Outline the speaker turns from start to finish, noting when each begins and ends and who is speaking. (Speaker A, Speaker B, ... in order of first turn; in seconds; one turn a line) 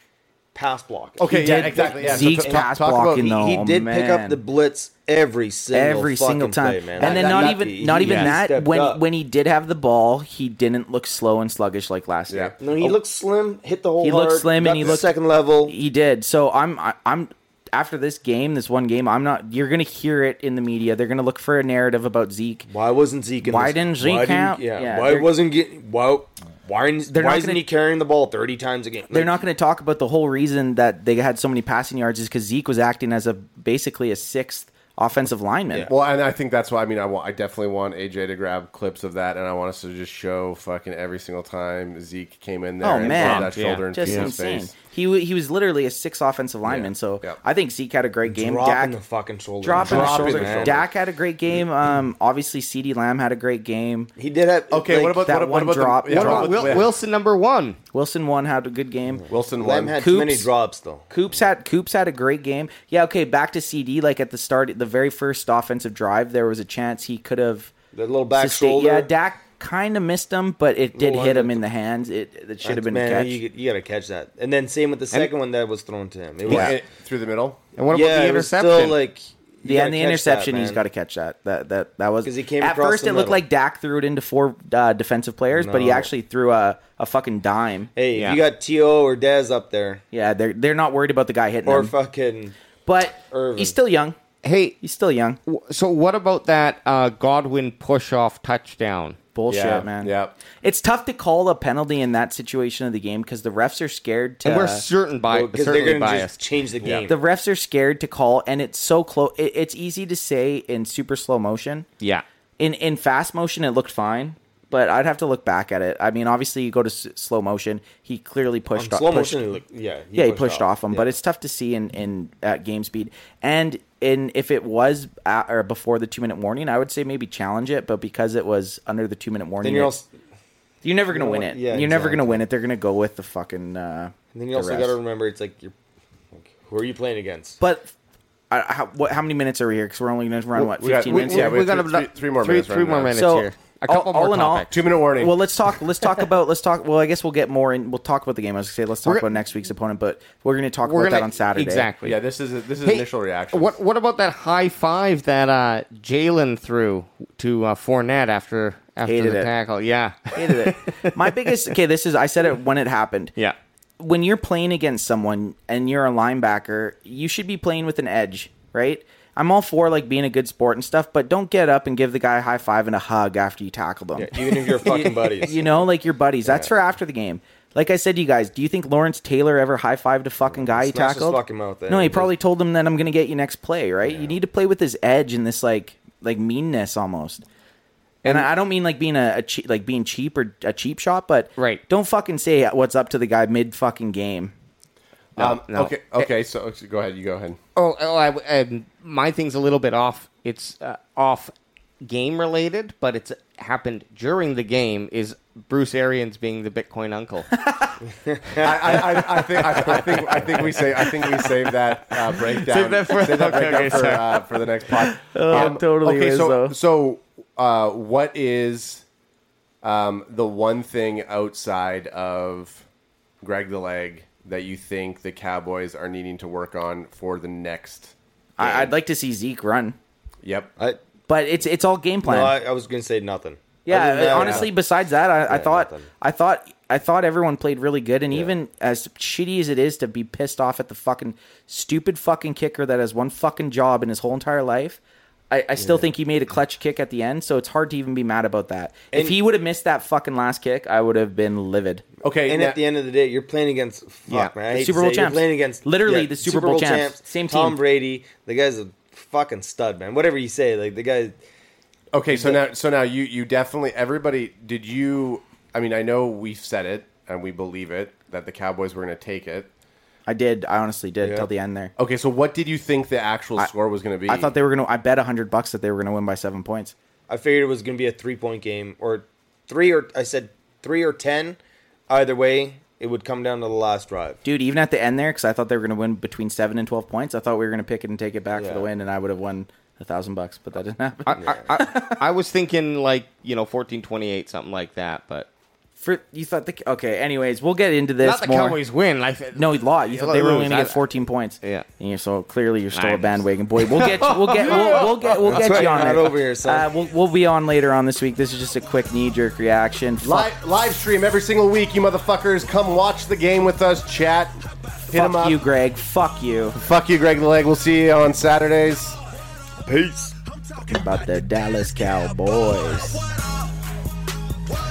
Speaker A: 0.5-9.0
Speaker B: 1.2-3.3
Speaker C: 1.2-4.4
Speaker C: 5.7-12.9
Speaker D: 8.0-8.3
Speaker B: 12.3-12.6
Speaker A: 12.6-15.7
Speaker C: 14.0-15.1
Speaker C: 15.7-22.6
Speaker A: 22.7-29.4
Speaker C: 23.4-25.3
Speaker C: 27.1-27.6
Speaker C: 29.1-35.9
Speaker B: 35.9-44.7
Speaker C: 42.8-48.9
Speaker D: 43.0-44.3
Speaker A: 46.6-46.9
Speaker A: 48.2-50.8
Speaker C: 49.6-54.1
Speaker B: 49.7-50.8
Speaker A: 54.1-55.3
Speaker B: 54.7-56.9
Speaker C: 55.2-56.8
Speaker D: 56.1-57.8
Speaker C: 57.9-59.2
Speaker A: 59.2-61.0
Speaker B: 59.3-60.0
Speaker C: 60.0-60.5
Speaker C: 61.1-67.7
Speaker A: 67.9-69.1
Speaker C: 68.3-73.4
Speaker A: 70.9-71.6
Speaker A: 72.6-76.8
Speaker B: 76.5-77.6
Speaker C: 76.5-76.8
Speaker D: 77.8-79.0
Speaker A: 77.9-80.8
Speaker C: 79.6-87.9
Speaker A: 82.2-83.4
Speaker A: 85.5-86.1
Speaker A: 87.9-90.0
Speaker D: 88.1-88.4
Speaker C: 90.1-91.9
Speaker A: 91.7-92.5
Speaker C: 92.8-94.1
Speaker A: 93.3-93.7
Speaker D: 94.4-94.8
Speaker C: 94.8-95.4
Speaker D: 95.5-99.2
Speaker C: 99.3-104.8
Speaker B: 99.5-100.4
Speaker D: 104.4-107.0
Speaker A: 105.3-107.2
Speaker C: 107.0-111.9
Speaker C: 112.6-119.4
Speaker A: 118.7-121.1
Speaker C: 120.1-129.9
Speaker A: 129.6-130.1
Speaker C: 130.8-134.9
Speaker A: 131.1-132.4
Speaker A: 134.3-135.7
Speaker A: 136.3-137.6
Speaker C: 137.6-137.9
Speaker C: 138.5-141.6
Speaker B: 140.5-143.1
Speaker D: 141.0-144.8
Speaker C: 143.1-151.9
Speaker B: 144.7-145.4
Speaker D: 150.8-152.2
Speaker B: 152.0-153.8
Speaker D: 152.8-161.1
Speaker C: 159.0-159.5
Speaker C: 160.3-163.3
Speaker C: 164.0-187.4
Speaker A: 174.2-175.7
Speaker A: 176.4-176.7
Speaker A: 180.5-182.3
Speaker A: 184.0-184.3
Speaker C: 188.2-194.5
Speaker D: 191.6-191.8
Speaker D: 195.3-196.3
Speaker B: 195.3-197.6
Speaker D: 197.7-207.5
Speaker C: 207.7-207.9
Speaker A: 208.3-208.6
Speaker B: 208.6-219.0
Speaker D: 210.3-210.7
Speaker D: 212.7-214.4
Speaker C: 214.9-216.7
Speaker B: 219.8-222.8
Speaker B: 223.4-228.9
Speaker C: 228.6-229.9
Speaker B: 230.4-230.7
Speaker C: 231.3-232.6
Speaker A: 232.2-234.7
Speaker C: 233.8-252.0
Speaker B: 234.3-234.7
Speaker A: 235.5-236.1
Speaker A: 238.3-238.6
Speaker A: 245.8-246.1
Speaker A: 249.1-249.4
Speaker B: 252.2-252.8
Speaker A: 252.5-261.4
Speaker D: 254.3-254.5
Speaker C: 254.7-257.8
Speaker B: 262.1-269.7
Speaker A: 262.3-262.6
Speaker C: 270.2-271.9
Speaker A: 271.2-271.5
Speaker B: 272.0-274.5
Speaker C: 274.3-276.9
Speaker A: 277.3-281.6
Speaker A: 282.1-284.4
Speaker C: 284.4-292.2
Speaker A: 288.5-288.9
Speaker D: 291.2-295.5
Speaker C: 296.0-298.8
Speaker D: 298.2-301.0
Speaker C: 299.5-310.5
Speaker D: 302.9-305.3
Speaker B: 304.6-305.7
Speaker A: 305.5-306.9
Speaker B: 310.2-315.6
Speaker C: 315.1-316.8
Speaker B: 316.7-319.2
Speaker A: 319.8-320.3
Speaker C: 320.9-323.2